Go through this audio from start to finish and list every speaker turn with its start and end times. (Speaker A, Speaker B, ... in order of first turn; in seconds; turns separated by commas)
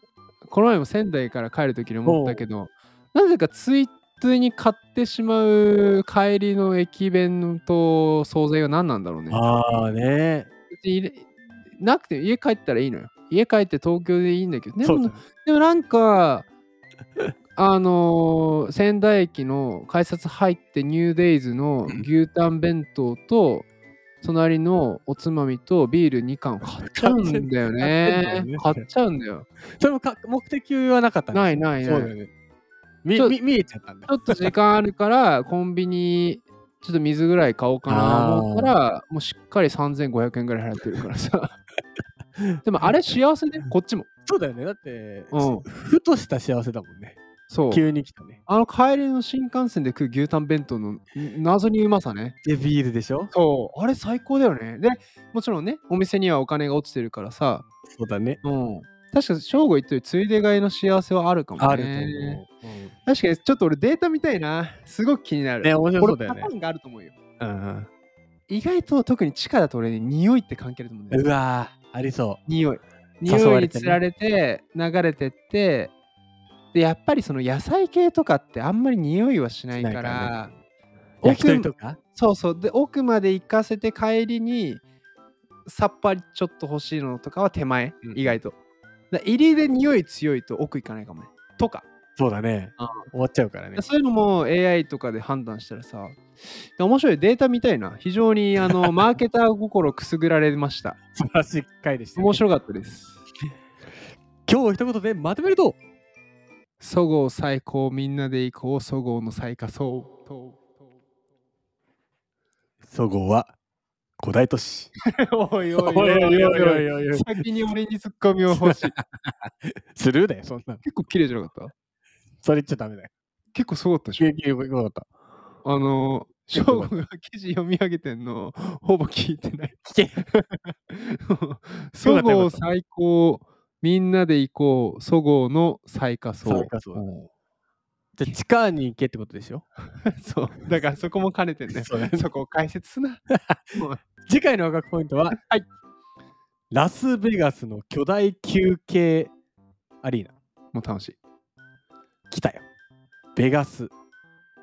Speaker A: 0.5-9.4, Speaker B: 2.1-2.5, Speaker B: 9.3-10.5, Speaker A: 10.7-16.5, Speaker B: 14.8-15.2, Speaker A: 17.6-23.7, Speaker A: 24.2-29.5, Speaker B: 26.6-28.9, Speaker B: 29.8-32.3, Speaker A: 31.3-32.1, Speaker B: 33.0-34.5, Speaker A: 33.1-33.4, Speaker A: 34.1-41.5, Speaker B: 37.9-38.8, Speaker A: 42.6-44.1, Speaker B: 44.3-47.2, Speaker A: 45.3-45.7, Speaker A: 47.5-47.8, Speaker B: 47.7-48.4, Speaker A: 48.5-52.4, Speaker B: 52.4-53.3, Speaker A: 53.3-57.7, Speaker B: 57.9-58.4, Speaker A: 58.4-62.4, Speaker B: 61.6-62.9, Speaker A: 63.0-67.2, Speaker B: 65.6-66.5, Speaker B: 67.4-67.9, Speaker A: 68.5-71.3, Speaker B: 71.1-72.4, Speaker A: 72.5-75.9, Speaker B: 73.2-74.0, Speaker A: 76.7-80.5, Speaker B: 79.7-80.5, Speaker B: 81.2-82.0, Speaker A: 81.2-84.8, Speaker A: 85.7-88.6, Speaker B: 88.1-88.4, Speaker A: 89.1-91.9, Speaker B: 92.2-93.8, Speaker A: 92.8-93.0, Speaker A: 93.8-101.0, Speaker B: 101.2-102.4, Speaker A: 102.2-103.2, Speaker B: 104.5-105.8, Speaker A: 106.8-110.8, Speaker B: 112.8-113.5, Speaker B: 114.2-114.9, Speaker A: 115.1-119.0, Speaker B: 115.8-117.5, Speaker B: 118.5-120.8, Speaker A: 120.8-121.7, Speaker B: 122.4-123.1, Speaker A: 123.5-124.3, Speaker B: 124.2-125.1, Speaker A: 125.6-137.3, Speaker B: 126.5-126.9, Speaker B: 129.9-130.2, Speaker B: 132.0-132.6, Speaker B: 136.4-137.0, Speaker B: 138.2-139.7, Speaker A: 140.1-143.2, Speaker B: 141.7-142.3, Speaker B: 143.3-143.6, Speaker A: 143.7-144.0, Speaker B: 144.3-145.4, Speaker A: 145.3-145.7, Speaker B: 146.7-149.3, Speaker B: 150.0-150.3, Speaker A: 150.7-151.2, Speaker B: 152.3-152.7, Speaker B: 153.3-153.9